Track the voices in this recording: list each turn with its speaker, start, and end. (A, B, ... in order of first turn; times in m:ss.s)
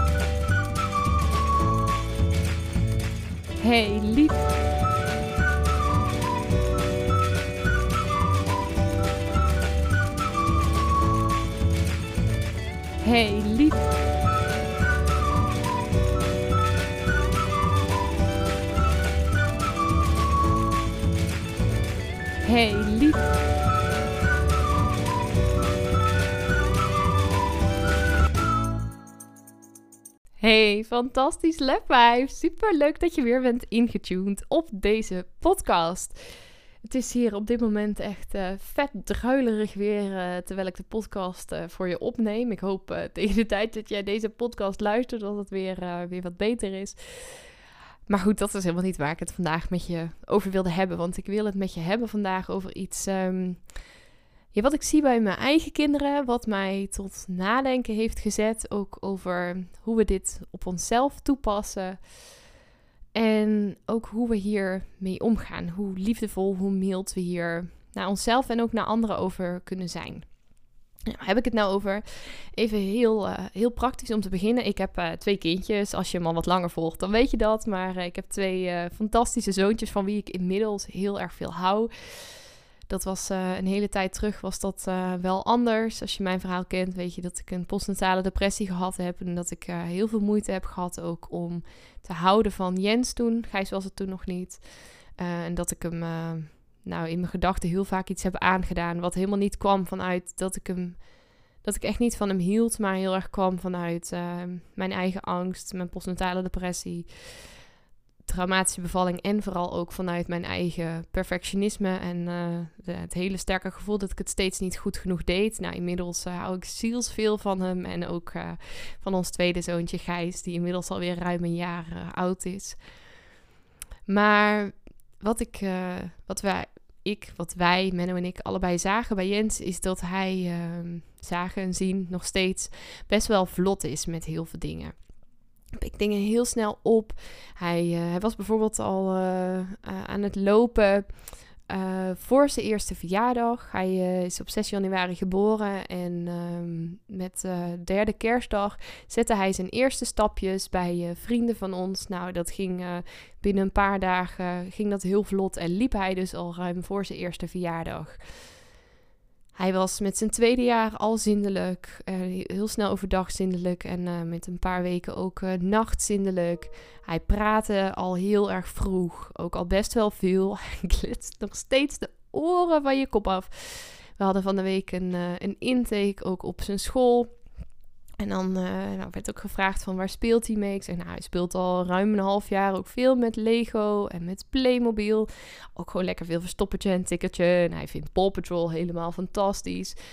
0:03.6-0:04.5 A
0:13.0-0:13.8 A
0:22.4-0:23.3 A
0:30.4-0:36.2 A
0:36.8-0:47.5 A
0:48.1-0:53.7 A
0:54.5-1:02.0 A
1:03.1-1:10.3 A
1:11.1-1:22.3 A
1:22.9-1:34.6 A
1:35.2-1:41.0 A
1:41.6-1:47.5 A
1:48.2-2:02.8 A
2:04.1-2:14.9 A
2:15.7-2:21.1 A
2:21.7-2:38.2 A
2:39.6-2:57.3 A
2:58.2-3:10.0 A